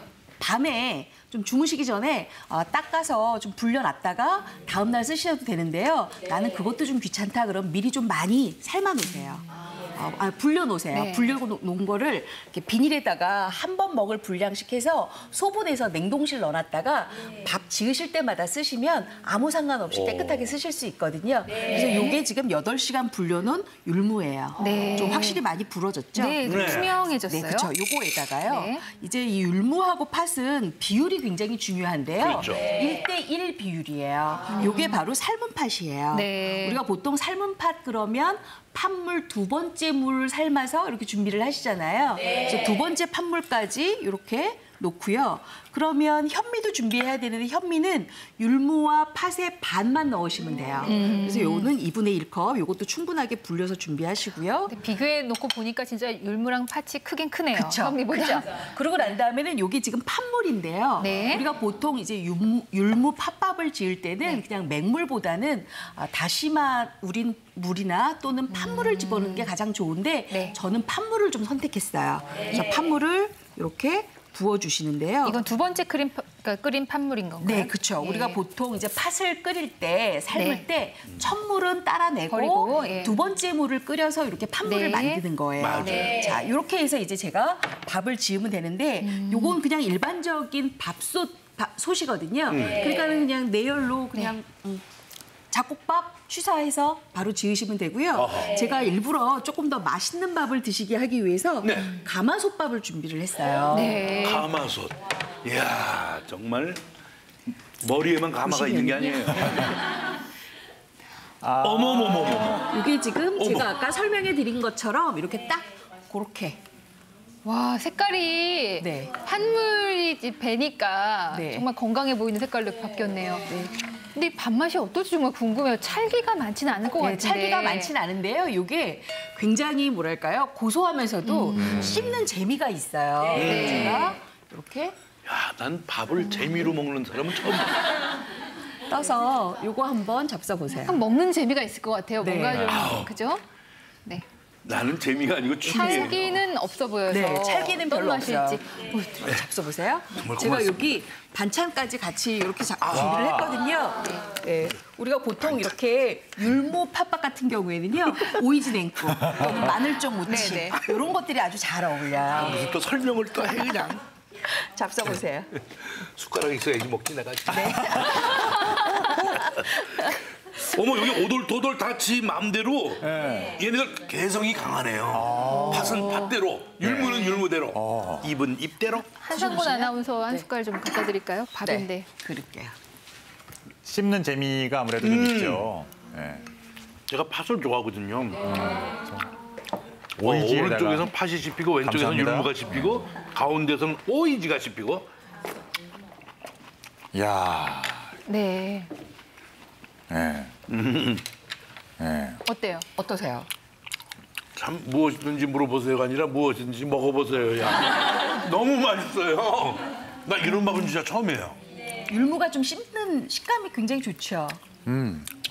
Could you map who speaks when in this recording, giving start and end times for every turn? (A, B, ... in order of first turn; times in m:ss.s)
0:00.4-0:54.7 A
0:10.9-0:11.4 B
0:19.9-0:20.5 C
0:24.6-0:25.4 B
0:26.2-0:27.7 B
0:26.4-0:26.9 C
0:28.4-0:28.8 B
0:32.2-0:32.6 C
0:34.5-0:35.0 B
0:36.1-0:36.8 B
0:50.9-0:51.7 B
0:54.7-0:58.5 B
0:57.5-1:15.4 A
1:01.0-1:01.4 B
1:08.5-1:09.5 B
1:10.3-1:10.6 B
1:15.2-1:18.4 B
1:17.4-1:34.8 A
1:20.3-1:20.6 B
1:22.3-1:23.1 B
1:24.6-1:25.2 B
1:25.6-1:26.1 C
1:25.8-1:26.3 B
1:29.0-1:29.6 B
1:32.5-1:32.8 C
1:35.5-1:44.1 A
1:38.1-1:38.5 C
1:41.6-1:41.9 C
1:43.7-1:44.5 B
1:44.1-1:46.8 C
1:47.8-1:49.8 C
1:48.4-1:49.5 A
1:51.4-1:52.5 D
1:51.6-1:52.7 C
1:52.7-1:56.6 A
1:53.4-1:53.7 C
1:57.4-2:03.6 B
1:58.8-1:59.2 A
2:01.3-2:01.7 A
2:03.5-2:03.7 A
2:04.1-2:07.9 B
2:07.0-2:15.0 A
2:11.2-2:11.9 B
2:11.6-2:12.2 D
2:13.4-2:14.1 B
2:13.4-2:14.0 C
2:15.2-2:17.9 C
2:18.9-2:21.0 A
2:20.7-2:23.4 B
2:22.2-2:22.8 A
2:22.5-2:23.1 C
2:24.6-2:26.4 C
2:25.6-2:26.2 A
2:25.6-2:28.6 B
2:27.1-2:42.7 A
2:30.1-2:30.8 C
2:32.8-2:33.6 D
2:40.3-2:40.8 B
2:42.3-2:44.0 C
2:44.4-2:45.5 A
2:45.8-2:49.8 C
2:47.5-2:50.0 A
2:50.5-2:59.1 C
2:53.0-2:53.5 D
2:55.1-2:56.2 D
2:55.5-2:56.3 B
2:56.8-2:58.3 D
2:59.2-3:02.1 B
2:59.3-3:00.5 A
3:01.6-3:02.8 A
3:03.8-3:06.4 D
3:05.0-3:05.7 C
3:07.1-3:08.6 C
3:08.4-3:09.3 D
3:10.2-3:15.1 C
3:10.2-3:11.1 D
3:11.8-3:13.0 D
3:17.1-3:18.1 D
3:18.3-3:18.9 B
3:20.1-3:20.5 D
3:20.7-3:21.2 C
3:22.0-3:22.4 D
3:22.4-3:22.8 B
3:23.0-3:23.5 A
3:24.5-3:31.6 C
3:32.0-3:34.6 A
3:34.8-3:35.3 D